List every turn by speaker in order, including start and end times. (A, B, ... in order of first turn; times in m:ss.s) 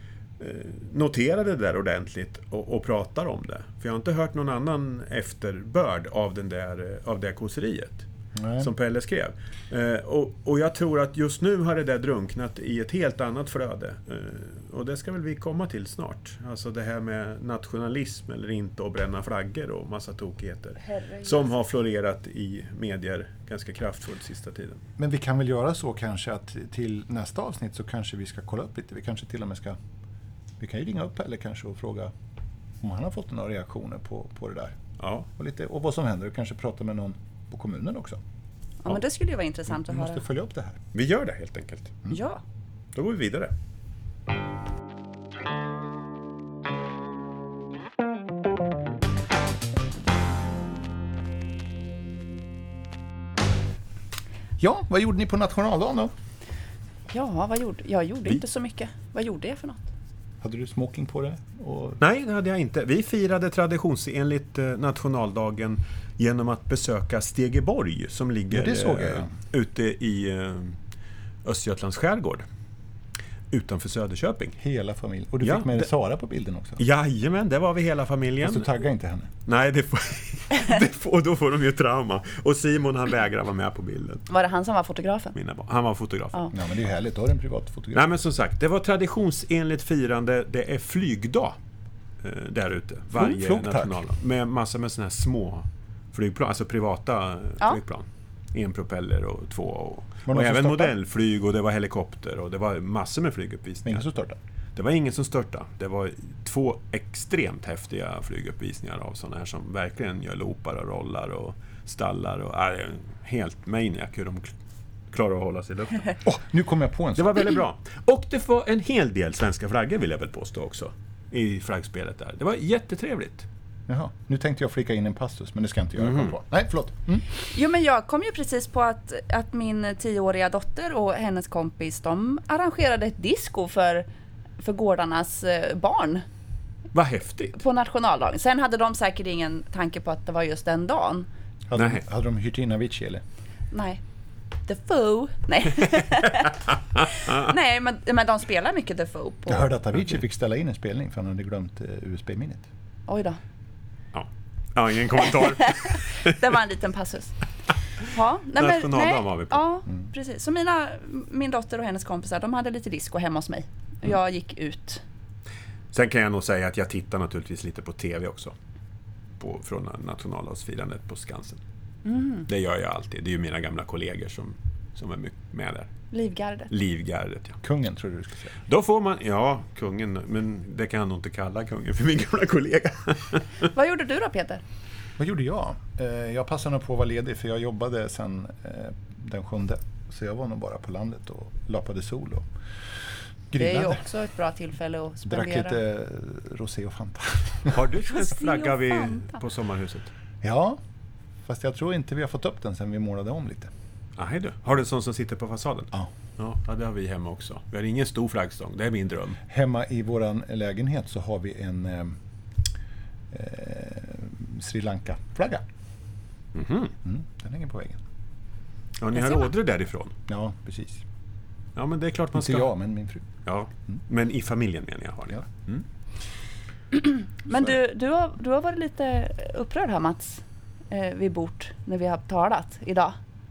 0:00.4-0:08.0 A
0:08.3-0:08.7 B
0:08.6-0:24.8 A
0:20.8-0:21.5 C
0:25.0-0:29.8 B
0:30.6-0:32.1 B
0:32.8-0:34.8 B
0:35.0-0:35.3 A
0:35.4-0:38.2 B
0:38.8-0:40.2 C
0:39.7-0:40.8 B
0:40.9-0:42.0 A
0:42.1-0:42.4 C
0:42.9-0:43.5 A
0:54.6-0:56.1 B
0:57.1-0:59.9 C
1:00.4-1:02.0 B
1:02.0-1:10.8 A
1:08.5-1:09.3 B
1:11.4-1:12.4 A
1:13.5-1:14.6 A
1:14.6-1:16.8 B
1:15.4-1:15.9 A
1:16.8-1:18.7 A
1:18.4-1:19.3 B
1:19.4-1:24.2 A
1:24.3-1:25.3 C
1:25.3-1:26.4 A
1:26.5-1:28.1 B
1:27.9-1:31.6 A
1:32.2-1:44.0 A
1:33.1-1:34.0 B
1:40.2-1:40.9 B
1:43.8-1:44.4 B
1:44.7-1:54.5 A
1:55.1-1:56.1 A
1:56.2-1:57.5 B
1:57.2-2:03.4 A
2:03.9-2:07.2 B
2:06.0-2:06.3 A
2:07.5-2:14.0 C
2:14.6-2:16.2 C
2:16.9-2:17.6 A
2:17.5-2:21.3 C
2:21.7-2:23.2 B
2:21.8-2:22.0 A
2:23.7-2:24.0 C
2:24.7-2:26.5 C
2:27.2-2:29.7 C
2:29.5-2:32.7 B
2:33.1-2:33.4 C
2:34.1-2:36.4 A
2:36.2-2:37.3 C
2:38.0-2:45.0 C
2:38.6-2:39.6 A
2:45.9-2:48.5 A
2:49.4-2:51.6 A
2:52.0-2:52.4 C
2:52.5-2:55.9 A
2:56.1-2:56.7 C
2:56.7-2:57.6 A
2:57.6-2:58.6 B
2:58.7-3:03.7 A
3:03.7-3:04.6 C
3:05.2-3:12.5 B
3:13.5-3:14.0 B
3:13.6-3:15.8 C
3:15.2-3:17.8 B
3:17.7-3:20.1 A
3:18.1-3:19.4 C
3:20.4-3:20.8 B
3:21.4-3:23.7 B
3:24.2-3:29.4 A
3:29.5-3:32.2 B
3:33.3-3:35.6 B
3:36.5-3:36.9 A
3:37.0-3:38.0 B
3:39.0-3:40.1 A
3:39.2-3:39.4 C
3:40.3-3:41.0 B
3:41.8-3:42.7 A
3:42.3-3:43.3 B
3:43.4-3:45.8 A
3:46.9-3:53.2 C